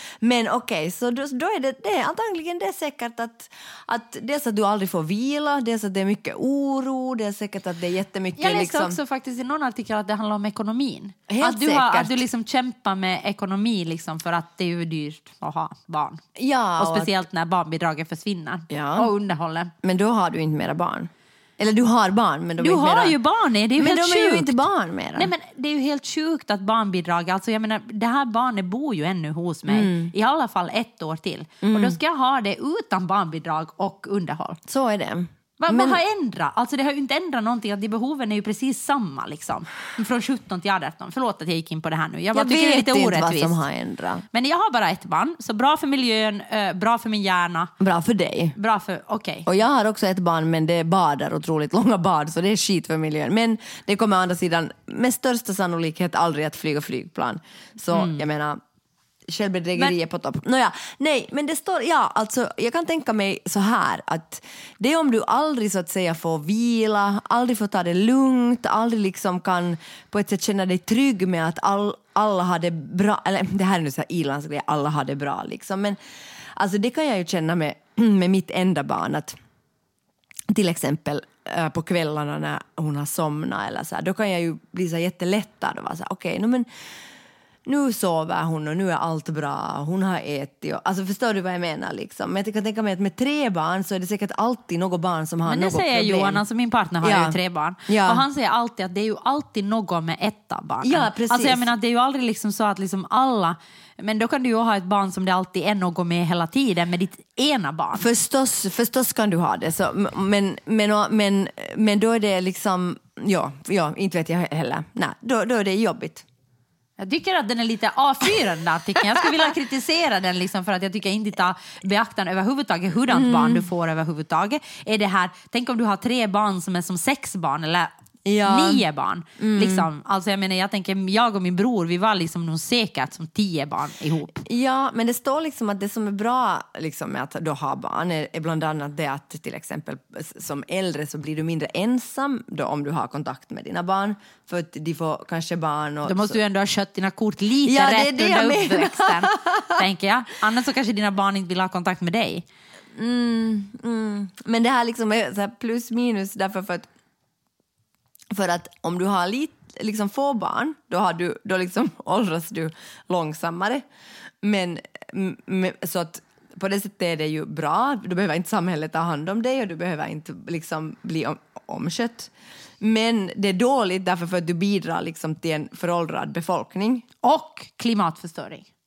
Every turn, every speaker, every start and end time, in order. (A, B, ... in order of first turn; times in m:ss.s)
0:00.2-0:09.0 A
0:08.4-0:16.2 B
0:11.3-0:12.2 A
0:16.4-0:17.1 A
0:16.8-0:19.7 B
0:18.7-0:19.1 A
0:19.8-0:23.2 A
0:22.6-0:24.6 B
0:23.8-0:25.3 A
0:25.2-0:34.6 B
0:29.7-0:30.1 A
0:31.6-0:32.0 A
0:34.7-0:36.0 A
0:35.6-0:43.6 B
0:42.3-0:44.2 A
0:44.3-0:47.7 B
0:47.8-0:48.6 A
0:48.6-0:49.5 B
0:49.5-0:58.6 A
0:57.9-0:58.2 B
0:59.3-1:16.0 A
1:16.6-1:19.4 A
1:20.5-1:26.7 A
1:27.7-1:36.4 A
1:35.5-1:48.1 B
1:37.0-1:38.2 A
1:40.8-1:41.7 A
1:48.0-1:56.2 A
1:57.0-2:07.9 B
1:59.2-1:59.4 A
2:03.1-2:03.7 A
2:08.2-2:08.8 A
2:08.4-2:14.4 B
2:09.4-2:09.9 A
2:14.4-2:26.4 A
2:26.0-2:32.4 B
2:27.6-2:29.8 A
2:33.0-2:36.9 A
2:38.3-2:43.8 A
2:44.4-2:57.0 A
2:57.2-2:58.7 B